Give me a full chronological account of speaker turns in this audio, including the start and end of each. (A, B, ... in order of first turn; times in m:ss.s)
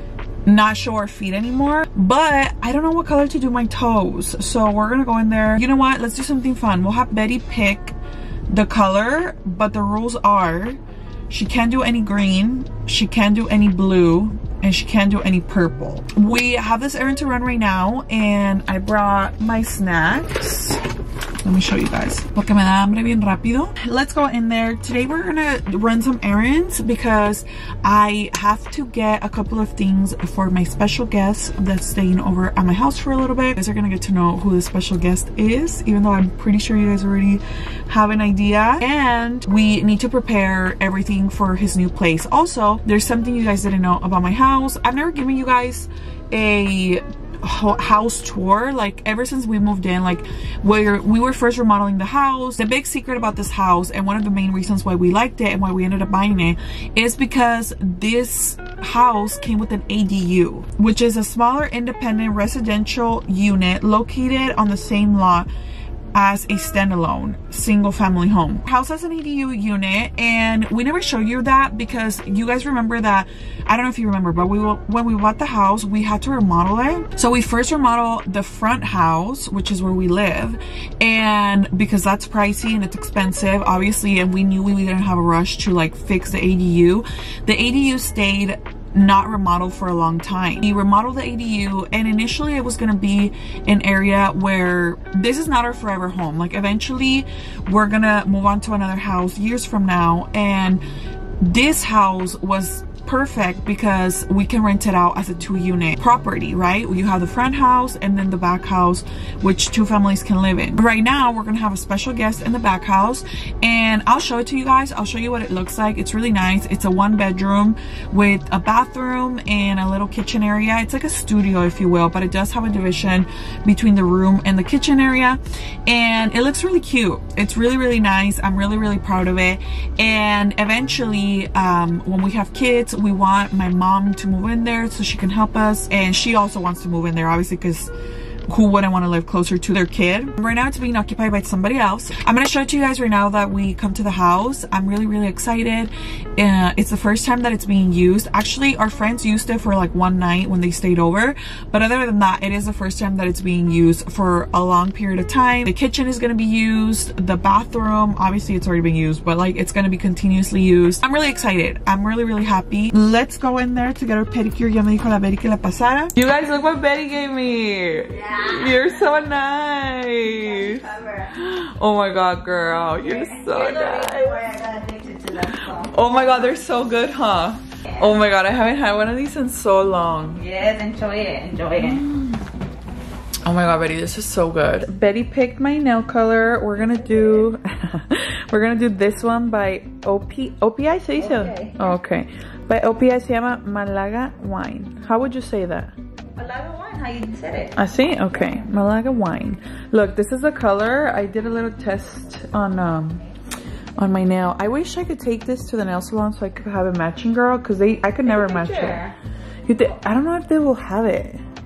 0:00.4-0:08.0 A
0:08.5-0:20.8 A
0:21.4-1:05.5 A
1:06.1-1:40.8 A
1:41.4-2:17.9 A
2:18.5-2:54.6 A
2:48.1-2:49.0 B
2:50.3-2:51.3 B
2:53.0-2:56.1 B
2:55.5-3:00.4 A
3:00.4-3:02.0 B
3:01.8-3:02.4 A
3:03.4-3:16.0 A
3:11.2-3:11.9 B
3:16.4-3:17.8 B
3:17.8-3:23.2 A
3:24.0-3:29.1 A
3:28.2-3:29.2 B
3:29.7-3:31.4 A